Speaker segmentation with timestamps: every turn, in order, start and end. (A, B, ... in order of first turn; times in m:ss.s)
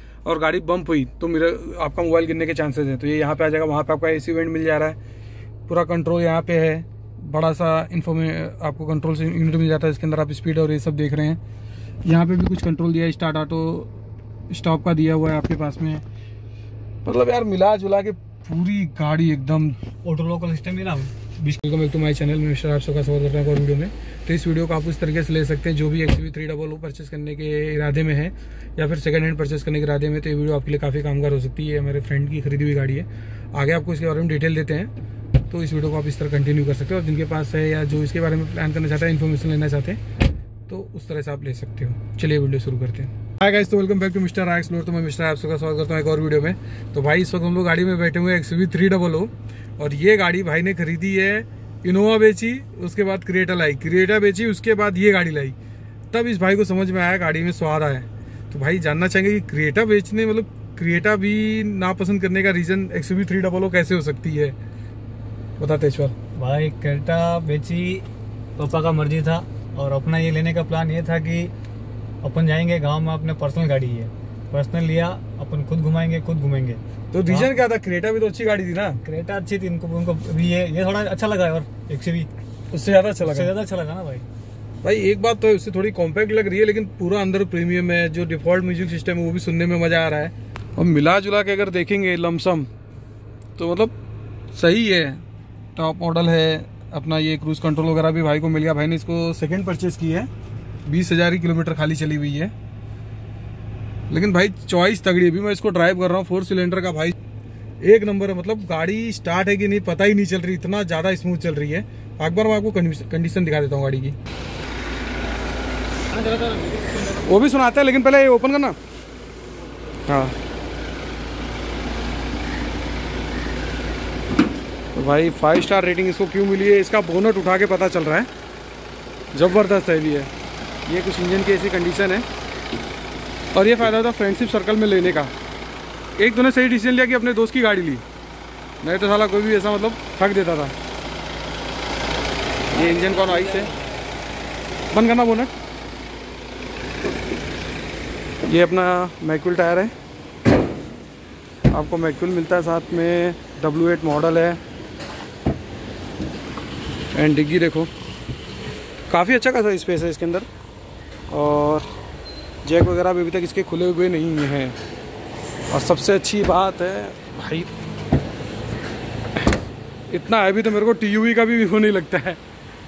0:00.2-0:05.0 A
0:05.7-0:11.4 A
0:12.0-0:13.9 A
0:14.5-0:16.0 A
0:17.0-0:19.8 A
0:20.0-0:21.6 B
0:21.6-0:34.9 A
0:35.5-0:40.0 A
0:40.7-0:55.6 A
0:56.1-1:04.6 A
1:05.6-1:06.1 A
1:06.4-1:08.1 B
1:08.6-1:11.5 B
1:12.2-1:17.6 B
1:17.1-1:19.0 A
1:19.0-1:22.3 B
1:22.7-1:23.5 A
1:23.2-1:24.3 B
1:24.8-1:32.7 A
1:33.6-1:33.9 A
1:34.5-1:35.2 A
1:35.8-1:40.3 A
1:40.9-1:42.5 A
1:44.1-1:47.2 A
1:47.8-1:54.2 A
1:56.4-1:56.7 B
1:57.0-1:58.8 A
2:00.1-2:00.4 A
2:05.0-2:08.3 A
2:09.3-2:10.3 A
2:10.9-2:12.2 A
2:13.5-2:15.3 A
2:16.2-2:18.0 A
2:18.8-2:20.7 A
2:22.7-2:23.7 A
2:24.9-2:25.5 A
2:28.5-2:29.9 A
2:31.7-2:34.6 A
2:37.1-2:37.9 A
2:39.1-2:40.5 A
2:41.3-2:41.9 A
2:42.6-2:44.8 A
2:45.7-2:47.7 A
2:50.1-2:52.4 A